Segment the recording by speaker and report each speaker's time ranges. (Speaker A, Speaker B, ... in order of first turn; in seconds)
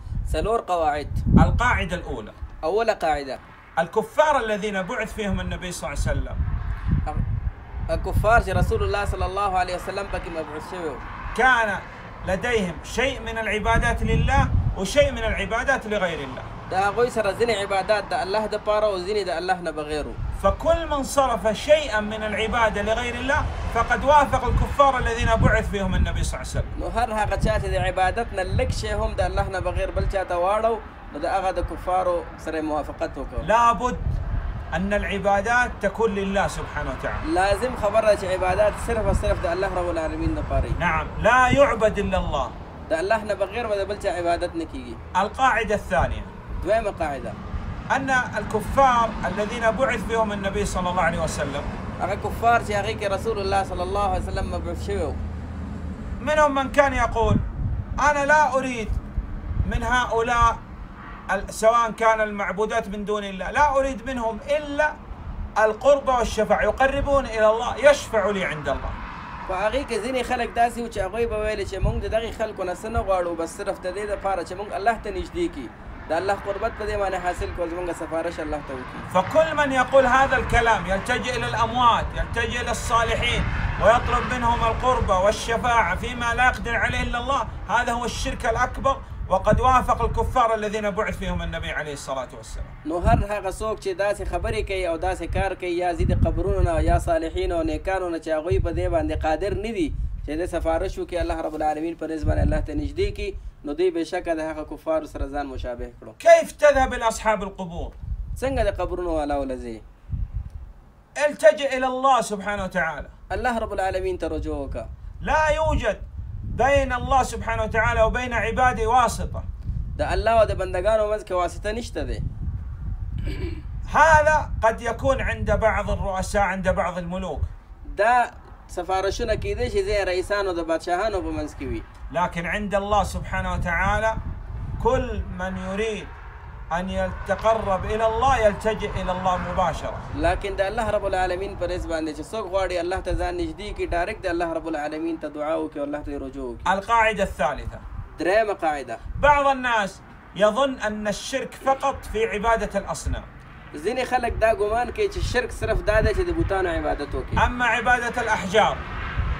Speaker A: 0.3-1.2, 2.6-3.4, 7.9-11.0, 16.7-20.2, 26.8-33.5, 37.2-40.8, 42.9-45.0, 46.6-47.4, 52.0-55.2, 69.5-79.0, 92.8-106.2, 108.4-109.8, 113.3-114.9, 120.0-122.2, 127.9-131.8, 140.1-146.7, 148.2-149.0, 153.7-157.4
Speaker B: 1.4-2.3, 3.8-6.4, 11.3-16.5, 20.4-26.7, 33.4-34.1, 34.7-37.2, 40.8-42.5, 45.1-46.3, 47.9-51.7, 56.2-57.4, 58.0-59.0, 59.6-60.6, 61.3-64.9, 65.6-69.0, 79.1-92.7, 106.2-107.9, 111.2-113.1, 115.2-116.0, 116.5-119.4, 123.9-127.5, 132.1-134.2, 134.8-136.1, 136.7-140.0, 146.7-147.8, 149.2-153.3, 157.4-158.8